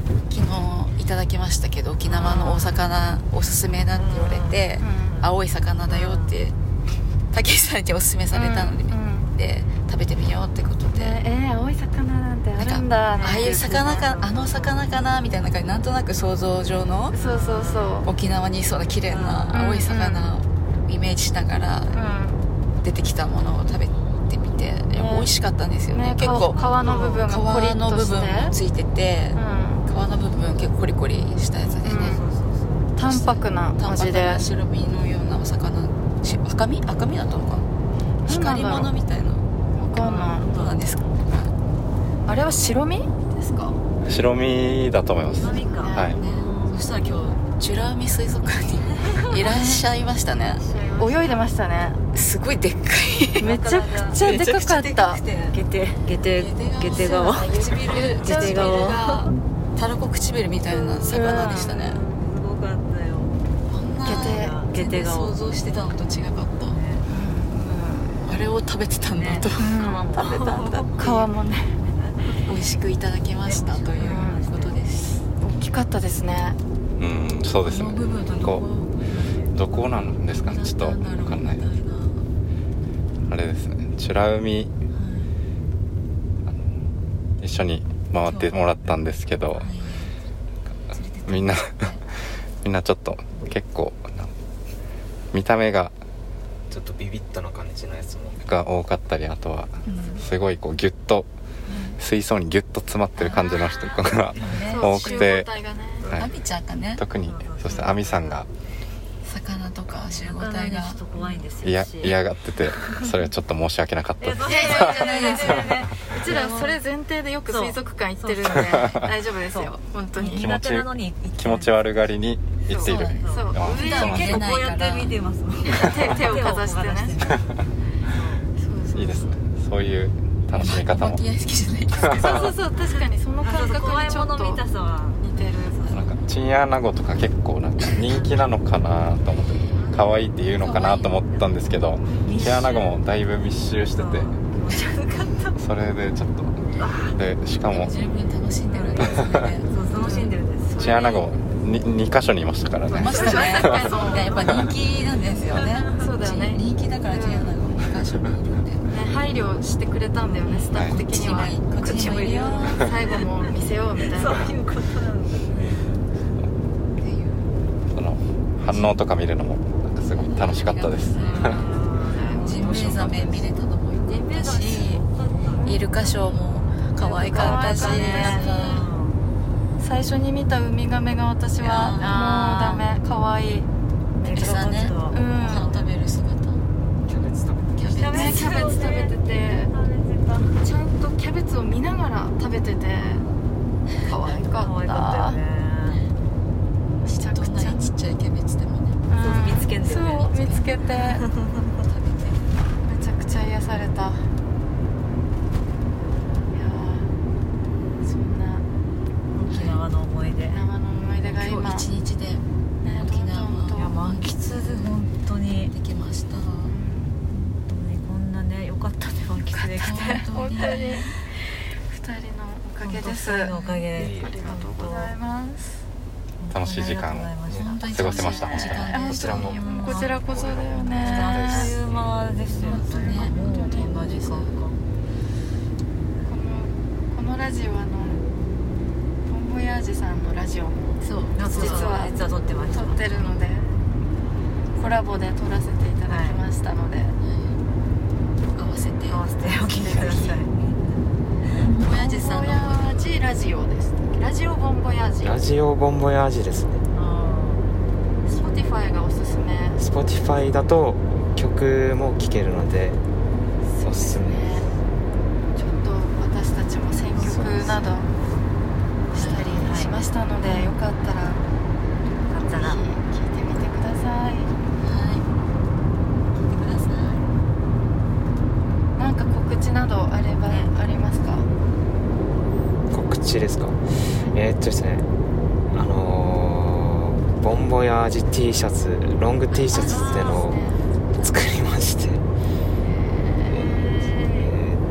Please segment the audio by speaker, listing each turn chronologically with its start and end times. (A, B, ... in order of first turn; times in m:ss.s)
0:00.3-0:06.6 A
0:02.1-0:02.8 B
0:03.9-0:05.3 B
0:04.8-0:05.2 C
0:05.9-0:06.4 B
0:07.3-0:11.2 A
0:08.3-0:09.3 C
0:11.0-0:14.2 C
0:12.6-0:17.2 A
0:13.1-0:14.8 B
0:17.1-0:18.1 C
0:17.1-0:18.1 B
0:18.0-0:22.0 A
0:19.1-0:19.6 B
0:19.5-0:20.3 C
0:21.9-0:22.4 C
0:22.8-0:32.2 A
0:25.0-0:25.3 C
0:25.9-0:28.6 C
0:26.2-0:27.3 B
0:29.4-0:29.8 C
0:31.8-0:32.9 B
0:31.8-0:32.2 C
0:33.0-0:34.5 C
0:33.0-0:37.7 A
0:38.2-0:38.9 C
0:38.2-0:39.4 A
0:39.8-0:40.5 C
0:40.0-0:40.9 B
0:40.4-0:41.5 A
0:42.3-0:43.8 C
0:44.0-0:46.2 D
0:45.4-0:46.9 B
0:45.8-0:46.2 C
0:46.2-0:50.7 A
0:49.0-0:49.4 B
0:50.6-0:51.5 B
0:51.0-0:52.0 C
0:52.1-0:53.5 A
0:53.4-0:54.4 B
0:53.4-0:55.2 C
0:54.2-0:55.6 A
0:55.5-0:59.2 B
0:56.3-1:02.0 A
0:57.0-0:59.3 C
1:00.7-1:03.4 B
1:01.0-1:01.7 C
1:03.7-1:06.8 A
1:04.0-1:04.6 C
1:04.2-1:05.4 B
1:06.7-1:07.0 B
1:07.0-1:08.2 C
1:08.2-1:11.2 A
1:09.1-1:11.3 B
1:09.6-1:11.8 C
1:11.8-1:12.5 B
1:12.4-1:15.2 A
1:13.4-1:14.8 B
1:14.0-1:14.4 C
1:15.4-1:16.6 C
1:17.0-1:18.7 D
1:17.6-1:19.0 A
1:19.0-1:20.1 B
1:19.5-1:21.7 D
1:20.4-1:22.3 A
1:23.3-1:24.7 D
1:24.9-1:25.3 A
1:27.4-1:29.7 D
1:28.3-1:28.8 A
1:29.5-1:30.2 A
1:30.9-1:32.0 A
1:31.3-1:32.0 D
1:32.6-1:34.3 D
1:35.3-1:35.9 D
1:36.7-1:38.4 E
1:38.4-1:41.3 D
1:39.8-1:40.2 A
1:41.7-1:42.0 A
1:42.0-1:45.5 D
1:43.2-1:43.7 A
1:43.4-1:45.3 B
1:44.4-1:44.9 A
1:44.6-1:46.1 C
1:46.0-1:46.3 D
1:46.2-1:47.0 A
1:47.0-1:48.5 D
1:47.2-1:48.4 B
1:49.2-1:51.0 A
1:50.1-1:53.2 B
1:51.6-1:55.7 D
1:54.2-1:56.8 B
1:54.4-2:00.5 C
1:55.0-1:55.6 A
1:57.5-2:01.9 B
1:58.7-1:59.1 D
2:00.3-2:04.6 D
2:02.7-2:04.3 C
2:02.8-2:05.2 A
2:03.1-2:08.5 B
2:05.7-2:07.2 C
2:08.6-2:09.4 C
2:09.0-2:11.2 D
2:10.6-2:12.5 A
2:12.0-2:12.4 D
2:12.1-2:14.6 C
2:13.4-2:15.9 B
2:15.2-2:16.0 C
2:15.9-2:24.4 D
2:18.0-2:18.3 B
2:19.8-2:20.2 B
2:20.6-2:21.2 A
2:22.0-2:22.3 C
2:22.2-2:23.0 B
2:24.0-2:25.6 B
2:25.6-2:26.6 D
2:26.8-2:27.2 B
2:27.1-2:27.9 D
2:27.7-2:29.7 A
2:28.7-2:31.1 B
2:29.0-2:29.5 D
2:30.0-2:31.3 C
2:30.8-2:33.9 D
2:32.9-2:34.6 C
2:33.0-2:38.8 A
2:33.3-2:34.7 B
2:35.6-2:35.9 B
2:35.9-2:37.6 C
2:38.9-2:44.6 C
2:40.4-2:43.0 A
2:40.7-2:41.0 D
2:41.8-2:42.2 B
2:44.0-2:46.1 B
2:47.0-2:47.5 A
2:47.9-2:51.7 D
2:48.7-2:49.0 A
2:50.1-2:51.7 A
2:51.1-2:53.3 B
2:52.1-2:52.5 C
2:52.4-2:55.0 A
2:54.0-2:55.8 B
2:55.5-2:55.8 C
2:55.6-2:58.9 A
2:57.0-2:59.2 B
2:57.1-2:58.7 C
2:59.8-3:03.7 C
3:01.6-3:02.2 A
3:01.7-3:03.0 B
3:04.2-3:05.9 B
3:04.3-3:06.6 A
3:05.1-3:05.7 C
3:07.1-3:08.0 E
3:07.7-3:08.5 A
3:07.9-3:10.6 B
3:08.0-3:09.7 C
3:10.6-3:13.3 C
3:13.0-3:13.4 B
3:14.0-3:15.4 C
3:14.3-3:16.0 B
3:15.9-3:16.1 A
3:17.0-3:17.8 C
3:17.0-3:19.0 A
3:19.1-3:21.2 C
3:19.2-3:21.8 B
3:20.3-3:20.6 A
3:21.8-3:22.5 A
3:22.9-3:24.3 C
3:26.5-3:27.1 C
3:28.0-3:28.7 C
3:29.3-3:30.6 B
3:29.5-3:29.8 A
3:30.5-3:31.9 C
3:31.2-3:34.9 A
3:32.8-3:34.0 C
3:33.8-3:35.7 B
3:35.7-3:36.7 A
3:36.6-3:37.2 C
3:37.5-3:40.9 B
3:39.5-3:41.2 C
3:39.8-3:41.2 A
3:41.9-3:43.6 C
3:42.8-3:45.2 B
3:43.0-3:43.9 A
3:43.9-3:44.4 E
3:44.1-3:45.8 C
3:46.4-3:50.2 B
3:46.5-3:49.0 D
3:47.5-3:47.8 E
3:47.5-3:49.6 A
3:48.6-3:51.8 C
3:49.0-3:52.2 E
3:51.0-3:54.8 B
3:51.0-3:51.4 A
3:52.5-3:54.6 C
3:52.6-3:54.4 A
3:56.2-3:58.2 C
3:59.3-4:03.7 C
4:01.0-4:02.0 A
4:01.4-4:03.4 B
4:04.8-4:07.2 C
4:06.1-4:06.4 B
4:07.2-4:07.6 A
4:08.5-4:09.2 A
4:09.1-4:10.8 B
4:09.4-4:10.4 C
4:11.5-4:12.9 A
4:11.9-4:15.4 C
4:15.2-4:16.8 E
4:16.9-4:17.6 B
4:18.3-4:19.8 C
4:19.8-4:23.0 E
4:23.6-4:24.7 C
4:23.8-4:24.7 E
4:25.6-4:28.1 C
4:27.2-4:27.8 A
4:29.1-4:31.4 C
4:29.1-4:29.7 A
4:29.5-4:29.9 B
4:30.5-4:30.7 A
4:32.3-4:32.8 B
4:32.5-4:34.5 C
4:34.8-4:35.3 A
4:36.4-4:37.2 A
4:39.0-4:41.5 C
4:40.5-4:40.7 B
4:42.9-4:45.1 E
4:45.7-4:52.2 E
4:49.5-4:50.4 A
4:49.7-4:50.8 C
4:49.9-4:50.5 B
4:52.9-4:54.5 C
4:53.5-4:54.8 E